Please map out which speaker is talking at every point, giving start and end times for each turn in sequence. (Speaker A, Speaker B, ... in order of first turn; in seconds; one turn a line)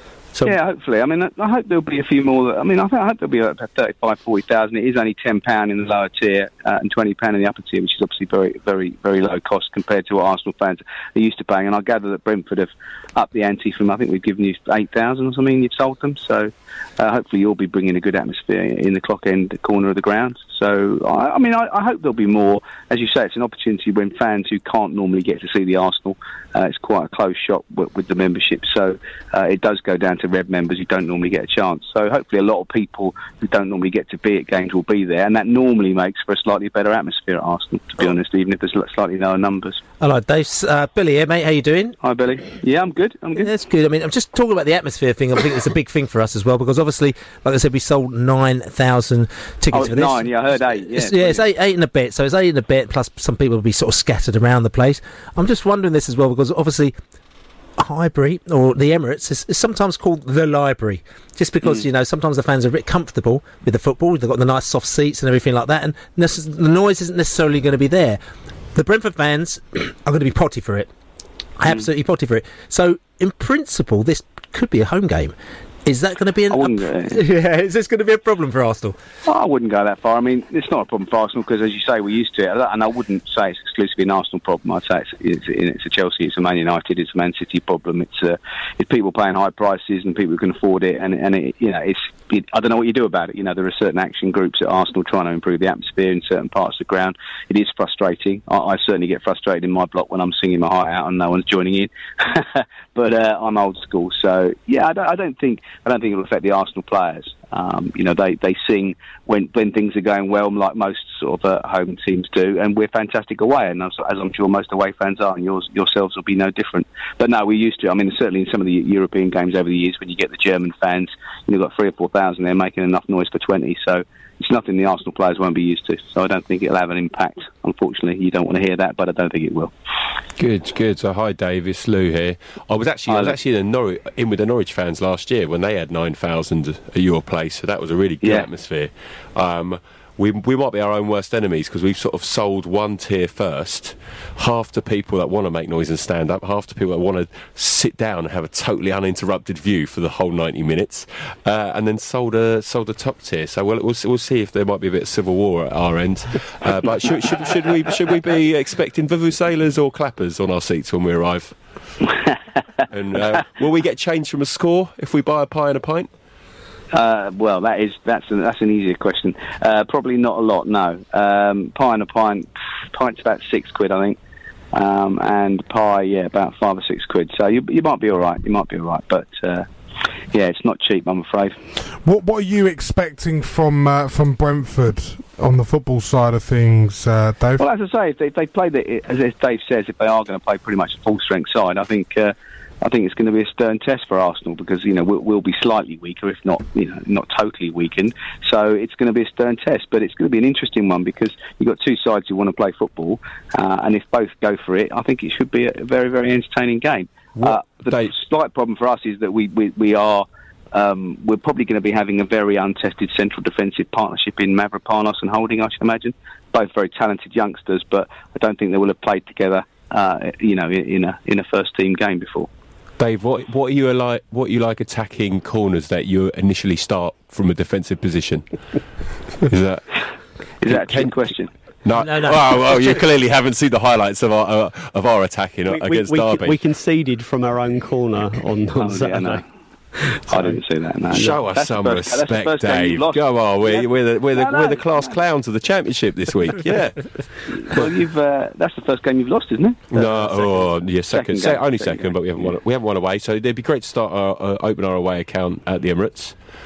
Speaker A: 0.4-39.8
Speaker B: 40.0-42.0
Speaker A: 42.0-43.5
Speaker B: 43.4-57.0
Speaker A: 49.7-51.5
Speaker B: 57.8-68.2
Speaker B: 68.7-70.9
Speaker B: 71.6-79.0
Speaker A: 76.5-77.2
Speaker A: 79.2-129.7
Speaker C: 130.4-161.6
Speaker A: 133.1-133.3
Speaker A: 162.1-162.4
Speaker C: 162.9-166.1
Speaker A: 166.9-174.2
Speaker A: 174.7-179.7
Speaker A: 180.3-181.6
Speaker D: 182.0-187.6
Speaker A: 187.6-222.5
Speaker C: 207.4-208.1
Speaker C: 223.0-228.4
Speaker C: 229.4-229.8
Speaker A: 230.6-231.5
Speaker C: 230.7-231.2
Speaker C: 231.8-236.6
Speaker B: 231.9-232.4
Speaker E: 235.7-239.4
Speaker A: 238.8-239.4
Speaker E: 240.0-240.6
Speaker A: 240.3-245.2
Speaker C: 241.1-247.0
Speaker A: 247.5-252.5
Speaker C: 249.9-256.4